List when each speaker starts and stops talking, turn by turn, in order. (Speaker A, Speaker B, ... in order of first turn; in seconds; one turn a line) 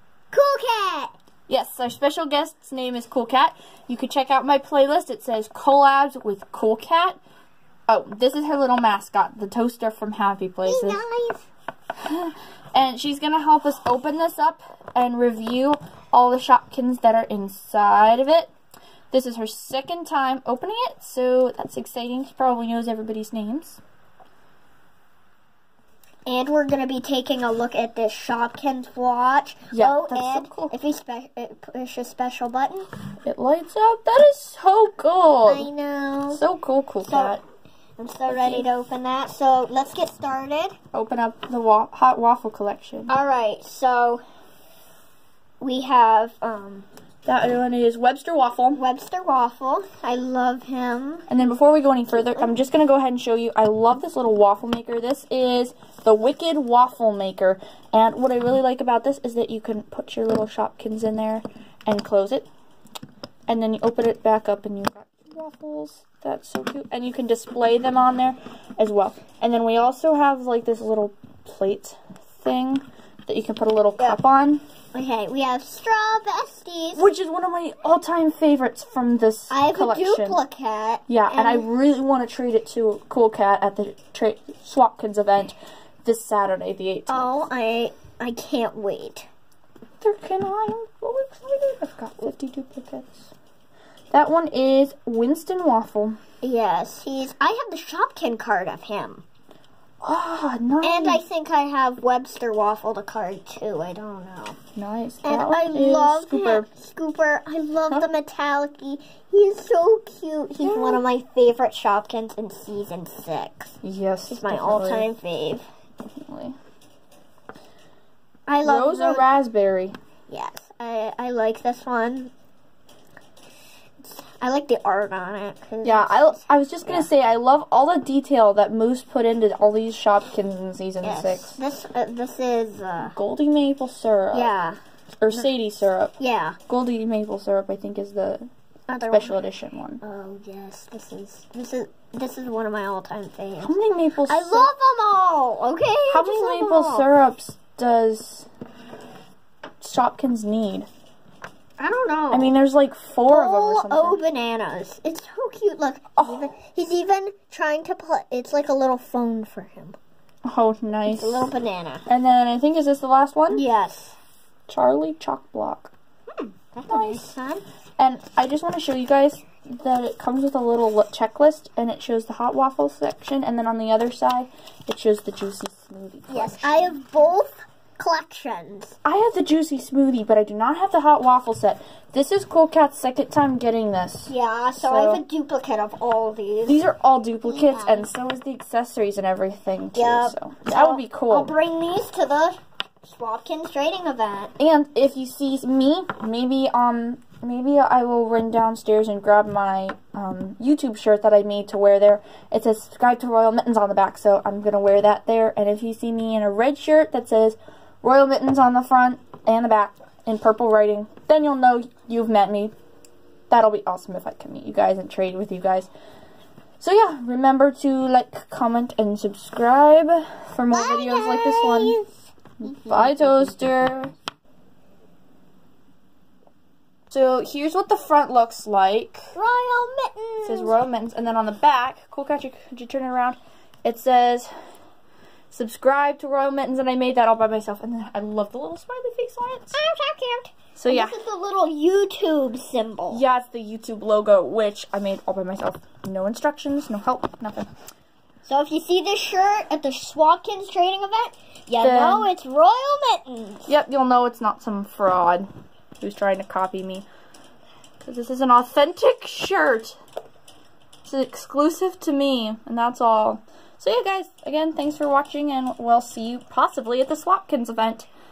Speaker A: 0.3-1.1
Speaker B: 1.5-7.2
Speaker B: 7.9-11.0
Speaker A: 10.6-11.4
Speaker B: 12.0-18.5
Speaker B: 19.1-23.8
Speaker A: 26.2-32.9
Speaker B: 29.7-30.7
Speaker B: 33.2-35.7
Speaker A: 35.4-36.4
Speaker B: 36.3-37.4
Speaker A: 37.0-37.4
Speaker A: 38.0-40.8
Speaker B: 38.3-38.7
Speaker B: 40.9-43.1
Speaker A: 43.1-44.2
Speaker A: 45.6-46.9
Speaker B: 47.2-48.8
Speaker A: 48.7-51.3
Speaker B: 51.3-62.5
Speaker B: 63.5-74.6
Speaker A: 74.9-77.1
Speaker B: 76.9-80.4
Speaker A: 79.5-81.7
Speaker B: 81.1-87.4
Speaker A: 87.1-89.3
Speaker B: 90.0-93.3
Speaker B: 94.1-96.2
Speaker A: 96.4-99.2
Speaker B: 100.0-101.2
Speaker A: 100.8-104.6
Speaker B: 104.7-106.7
Speaker A: 105.2-113.8
Speaker B: 110.6-111.0
Speaker B: 113.8-115.1
Speaker A: 114.3-115.6
Speaker B: 116.0-116.5
Speaker A: 118.5-119.3
Speaker B: 118.6-119.9
Speaker A: 120.3-122.3
Speaker A: 124.0-127.1
Speaker B: 125.8-131.6
Speaker A: 131.0-133.2
Speaker B: 133.1-134.5
Speaker A: 134.3-134.8
Speaker B: 135.2-136.1
Speaker A: 136.2-136.6
Speaker B: 136.7-138.5
Speaker A: 138.9-139.4
Speaker B: 139.1-140.0
Speaker A: 140.0-143.8
Speaker B: 143.6-144.7
Speaker A: 144.3-147.1
Speaker B: 146.1-148.5
Speaker B: 149.8-150.9
Speaker A: 151.8-152.5
Speaker B: 152.3-154.2
Speaker A: 153.3-160.0
Speaker B: 156.2-156.5
Speaker B: 160.4-161.5
Speaker A: 161.1-162.1
Speaker B: 162.1-163.6
Speaker A: 163.5-164.1
Speaker B: 164.7-165.9
Speaker A: 166.4-167.6
Speaker B: 166.9-167.3
Speaker B: 168.0-177.0
Speaker A: 176.3-178.9
Speaker B: 179.0-185.2
Speaker A: 184.3-186.8
Speaker B: 186.7-191.5
Speaker A: 187.4-188.1
Speaker A: 189.9-194.5
Speaker B: 194.6-212.7
Speaker B: 213.5-215.9
Speaker B: 216.8-222.0
Speaker A: 220.7-223.7
Speaker B: 222.6-224.1
Speaker B: 227.1-229.3
Speaker A: 229.3-230.8
Speaker B: 230.4-234.5
Speaker B: 235.5-239.8
Speaker A: 239.7-243.2
Speaker B: 240.8-241.2
Speaker B: 243.1-247.7
Speaker A: 248.4-253.7
Speaker B: 251.8-252.3
Speaker B: 253.7-255.5
Speaker B: 256.0-257.1
Speaker B: 258.0-260.0
Speaker B: 261.0-268.1